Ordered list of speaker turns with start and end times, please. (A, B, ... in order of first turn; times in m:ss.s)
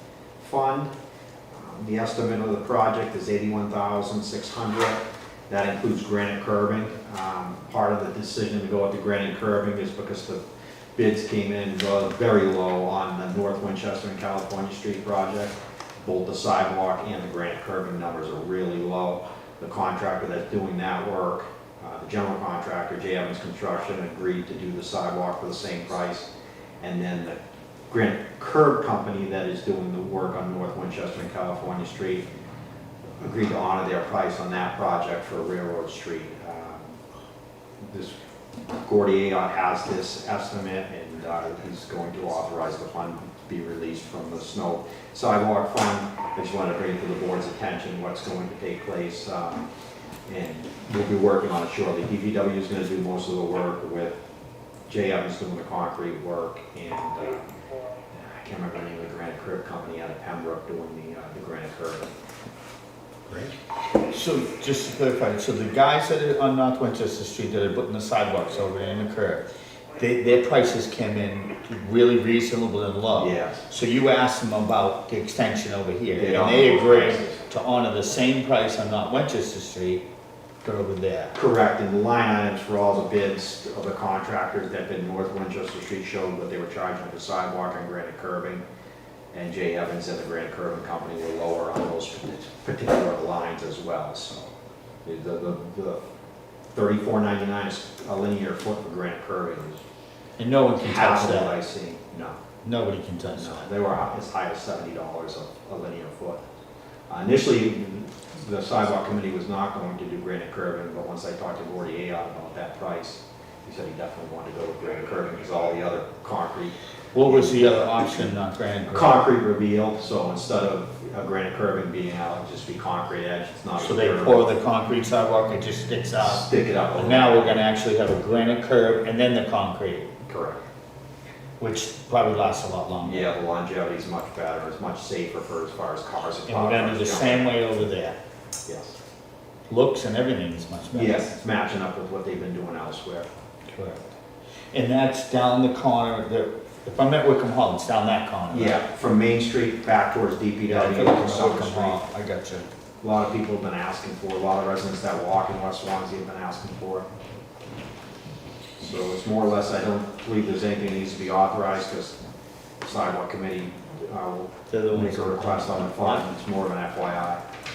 0:00.4-0:00.9 A
0:01.5-0:10.4 A
0:11.0-0:26.3 A
0:26.8-0:27.4 A
0:27.9-0:32.3 A
0:33.2-0:37.0 A
0:37.8-0:38.2 A
0:38.8-0:49.7 A
0:50.3-0:54.2 A
0:54.9-0:57.6 A
0:58.1-1:02.1 A
1:04.1-1:20.0 B
1:13.1-1:13.6 A
1:16.1-1:17.4 A
1:20.6-1:21.4 B
1:21.4-1:28.6 A
1:29.3-1:34.5 A
1:35.0-1:36.0 A
1:36.7-1:39.8 A
1:40.4-1:41.6 B
1:40.8-1:42.4 A
1:42.6-1:43.6 B
1:43.4-1:46.4 A
1:47.1-1:58.3 A
1:57.1-1:59.2 B
1:58.9-2:04.5 A
2:03.8-2:06.4 B
2:06.2-2:07.6 A
2:07.0-2:10.1 B
2:10.2-2:10.6 A
2:11.6-2:13.3 B
2:13.0-2:17.6 A
2:16.5-2:18.2 B
2:18.7-2:19.0 A
2:19.7-2:21.3 B
2:20.9-2:23.3 A
2:23.7-2:24.1 B
2:24.7-2:28.8 B
2:28.5-2:32.0 A
2:30.7-2:32.7 B
2:33.0-2:37.1 A
2:38.8-2:42.2 A
2:42.8-2:47.4 A
2:44.7-2:46.3 B